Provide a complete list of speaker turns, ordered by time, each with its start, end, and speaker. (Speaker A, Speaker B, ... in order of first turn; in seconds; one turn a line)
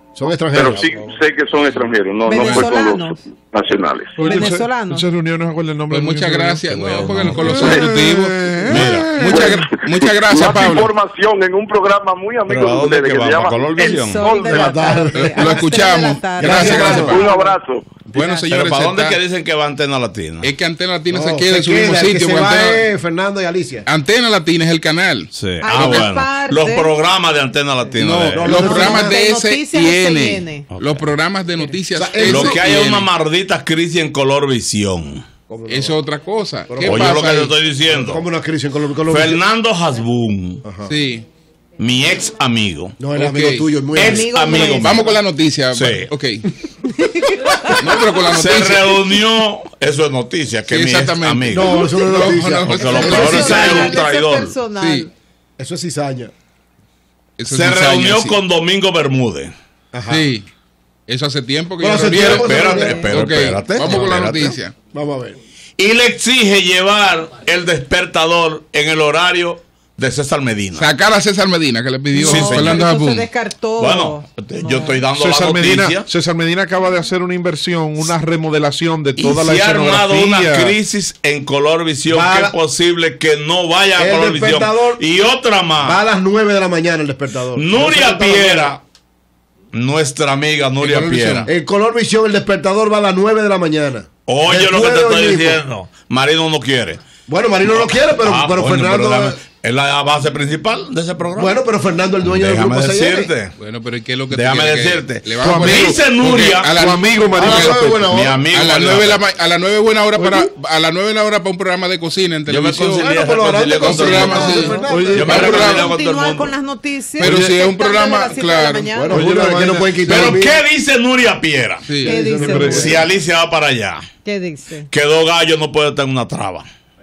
Speaker A: 0.1-0.8
Speaker B: 0.5-4.3
Speaker C: 2.2-3.2
Speaker D: 4.2-6.7
Speaker C: 4.3-5.1
Speaker E: 5.9-10.9
Speaker F: 6.7-7.7
Speaker D: 7.3-9.3
Speaker F: 8.7-9.2
Speaker C: 8.7-9.4
Speaker B: 9.3-14.5
Speaker F: 12.5-14.3
Speaker C: 13.8-17.6
Speaker A: 14.4-15.7
Speaker E: 15.2-17.2
Speaker A: 16.4-17.2
Speaker B: 17.1-18.0
Speaker E: 18.1-19.2
Speaker F: 18.1-20.5
Speaker E: 20.4-22.9
Speaker A: 21.1-23.9
Speaker E: 23.9-25.3
Speaker F: 25.3-29.0
Speaker C: 25.6-26.9
Speaker E: 28.0-33.1
Speaker A: 28.4-29.2
Speaker C: 28.6-30.7
Speaker F: 30.7-31.1
Speaker A: 31.9-32.7
Speaker F: 32.2-35.3
Speaker A: 35.5-36.0
Speaker E: 35.7-37.5
Speaker A: 36.7-37.2
Speaker F: 36.9-38.3
Speaker A: 37.9-39.4
Speaker F: 39.1-40.6
Speaker A: 40.6-40.9
Speaker E: 40.9-41.3
Speaker F: 41.8-43.0
Speaker A: 43.0-44.4
Speaker E: 43.2-43.7
Speaker F: 43.9-45.1
Speaker C: 44.0-45.1
Speaker E: 44.8-46.5
Speaker F: 45.7-46.1
Speaker C: 46.8-47.7
Speaker E: 47.8-48.9
Speaker F: 48.3-51.8
Speaker E: 50.7-53.8
Speaker A: 51.5-54.0
Speaker F: 52.7-54.6
Speaker C: 52.8-55.1
Speaker E: 54.8-55.1
Speaker A: 55.6-56.3
Speaker E: 57.4-58.4
Speaker F: 57.5-59.5
Speaker A: 59.9-60.3
Speaker E: 60.1-60.5
Speaker E: 61.1-64.7
Speaker A: 61.8-63.1
Speaker F: 62.1-64.6
Speaker A: 64.9-65.4
Speaker F: 65.8-70.9
Speaker E: 70.8-73.3
Speaker F: 72.2-72.8
Speaker D: 72.2-72.6
Speaker C: 72.3-75.0
Speaker F: 73.8-76.1
Speaker D: 75.0-80.8
Speaker F: 79.2-86.0
Speaker A: 82.1-82.6
Speaker A: 84.0-85.0
Speaker A: 85.8-88.8
Speaker F: 87.5-88.8
Speaker F: 89.7-91.5
Speaker E: 90.8-91.5
Speaker A: 91.5-95.6
Speaker F: 94.3-97.0
Speaker A: 97.3-99.4
Speaker F: 97.6-101.6
Speaker A: 101.3-103.3
Speaker F: 102.2-103.5
Speaker E: 103.6-108.0
Speaker F: 104.3-106.8
Speaker D: 105.4-108.1
Speaker A: 107.4-108.4
Speaker F: 107.5-109.2
Speaker E: 108.5-113.1
Speaker F: 112.5-116.6
Speaker A: 113.0-115.3
Speaker E: 113.8-115.9
Speaker C: 114.3-119.2
Speaker D: 114.8-115.9
Speaker E: 117.2-118.9
Speaker D: 117.2-117.6
Speaker A: 118.9-120.6
Speaker D: 119.1-120.3
Speaker F: 120.1-122.0
Speaker E: 121.8-122.2
Speaker C: 122.0-123.1
Speaker A: 122.1-123.1
Speaker D: 122.2-123.0
Speaker F: 122.7-124.0
Speaker C: 124.2-124.9
Speaker F: 124.9-126.7